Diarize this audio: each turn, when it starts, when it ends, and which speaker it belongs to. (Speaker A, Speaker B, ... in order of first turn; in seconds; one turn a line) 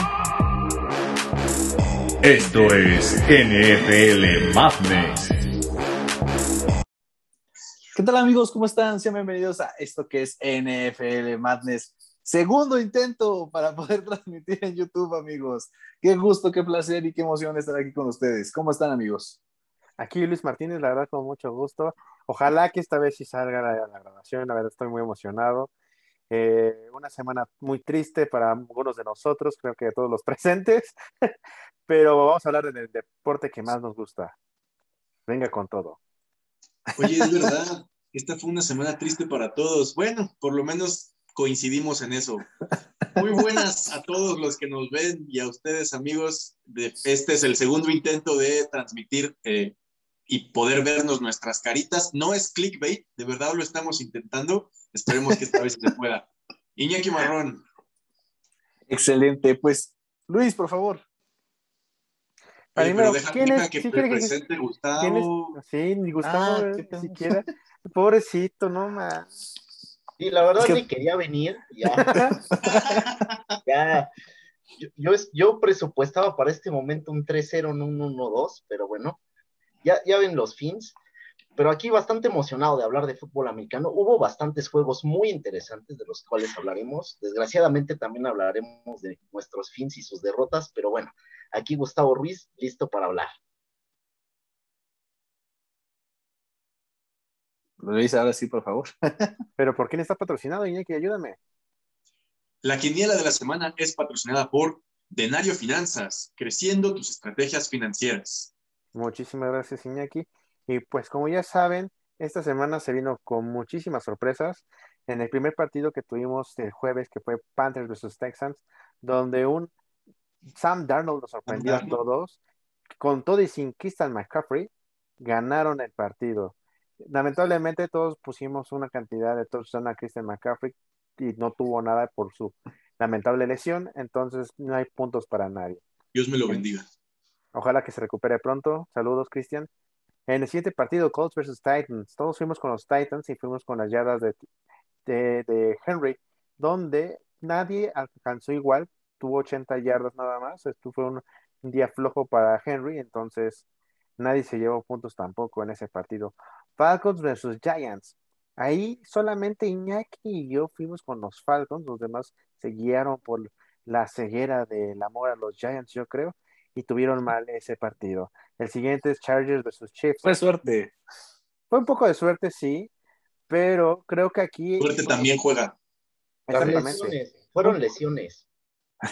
Speaker A: 2.2-5.3
Speaker B: 7.9-19.4
Speaker C: 20.0-25.7
Speaker C: 26.3-31.3
Speaker C: 31.9-34.3
Speaker C: 35.3-36.0
Speaker D: 37.0-42.5
Speaker B: 37.0-37.5
Speaker D: 43.1-49.8
Speaker D: 50.3-57.6
Speaker B: 58.9-61.0
Speaker C: 62.8-64.3
Speaker D: 62.8-65.6
Speaker C: 65.0-69.3
Speaker B: 66.2-67.5
Speaker E: 70.2-72.2
Speaker C: 72.0-72.3
Speaker B: 72.1-73.0
Speaker D: 72.7-73.4
Speaker E: 73.7-74.1
Speaker E: 74.8-79.2
Speaker E: 79.8-81.0
Speaker E: 81.6-93.3
Speaker B: 97.8-99.3
Speaker C: 99.6-101.4
Speaker D: 102.6-108.5
Speaker C: 108.9-119.7
Speaker C: 120.5-122.4
Speaker D: 121.5-122.0
Speaker C: 123.0-135.8
Speaker D: 136.1-136.9
Speaker C: 137.5-139.7
Speaker C: 140.3-144.4
Speaker C: 145.1-153.6
Speaker C: 154.2-170.4
Speaker B: 170.2-170.9
Speaker C: 171.7-172.9
Speaker C: 173.5-174.9
Speaker D: 174.8-175.7
Speaker C: 176.5-177.7
Speaker E: 176.5-178.4